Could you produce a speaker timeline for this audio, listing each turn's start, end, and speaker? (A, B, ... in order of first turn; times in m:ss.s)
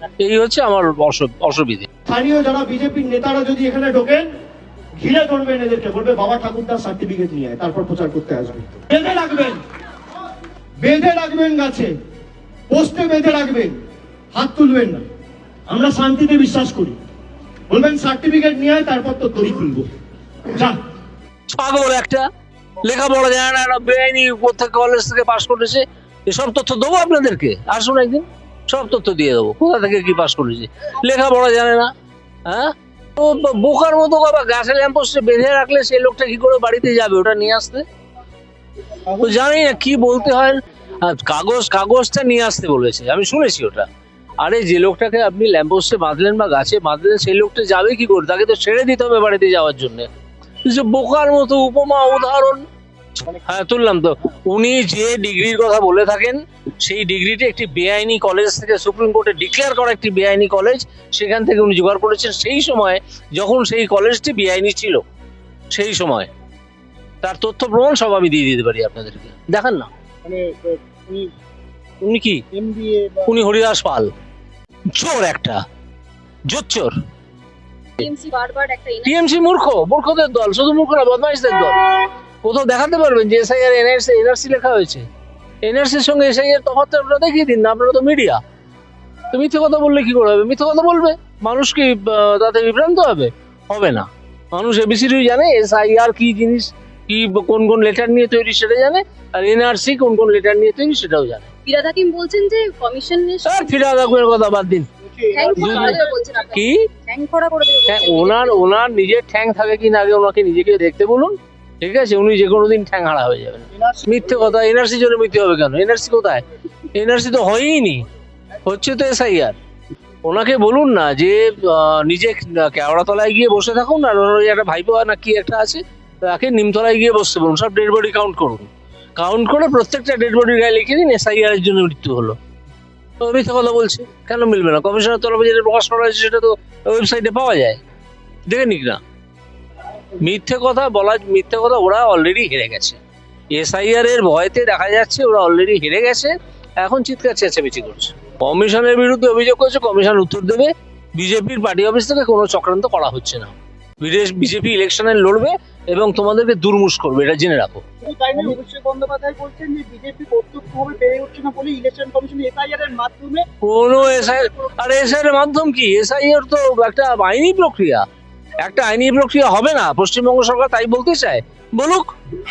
0:00.2-0:01.9 A
0:02.1-0:04.3 B
0:05.0-0:09.6 B
0:10.8-0:11.9 B
0:12.7-0:13.8 B
0:14.3-0:15.0 B
0:15.7-0:17.0 B
0:17.7-0:19.8 B
0:20.5-0:20.8 B
0:21.5-0:22.3 A
0:22.8-0:31.9 A
0:32.4-0:37.8 A
0:39.1-0:39.5 C
0:39.2-0:43.8 A
0:44.4-0:50.1 A
0:50.6-0:52.6 A
0:53.2-1:05.0 A
1:05.7-1:06.3 A
1:07.2-1:09.9 A
1:10.2-1:11.3 C
1:12.0-1:12.4 A
1:12.5-1:13.3 C
1:13.3-1:14.1 A
1:14.9-1:15.6 A
1:16.5-1:16.9 A
1:18.0-1:19.1 D
1:19.0-1:21.8 A
1:22.4-1:25.0 A
1:25.6-1:28.4 A
1:29.3-1:41.5 A
1:41.6-1:43.9 D
1:43.4-1:44.9 A
1:45.0-1:46.0 C
1:45.3-1:48.6 D
1:45.4-1:46.0 A
1:46.5-1:46.9 A
1:47.9-1:56.4 A
1:53.7-1:54.2 C
1:56.9-1:58.0 A
1:58.6-1:59.6 A
2:00.2-2:12.4 A
2:13.2-2:17.8 A
2:18.5-2:19.0 A
2:20.2-2:23.0 A
2:23.5-2:37.8 A
2:38.0-2:43.4 C
2:43.6-2:48.0 A
2:48.6-2:52.1 A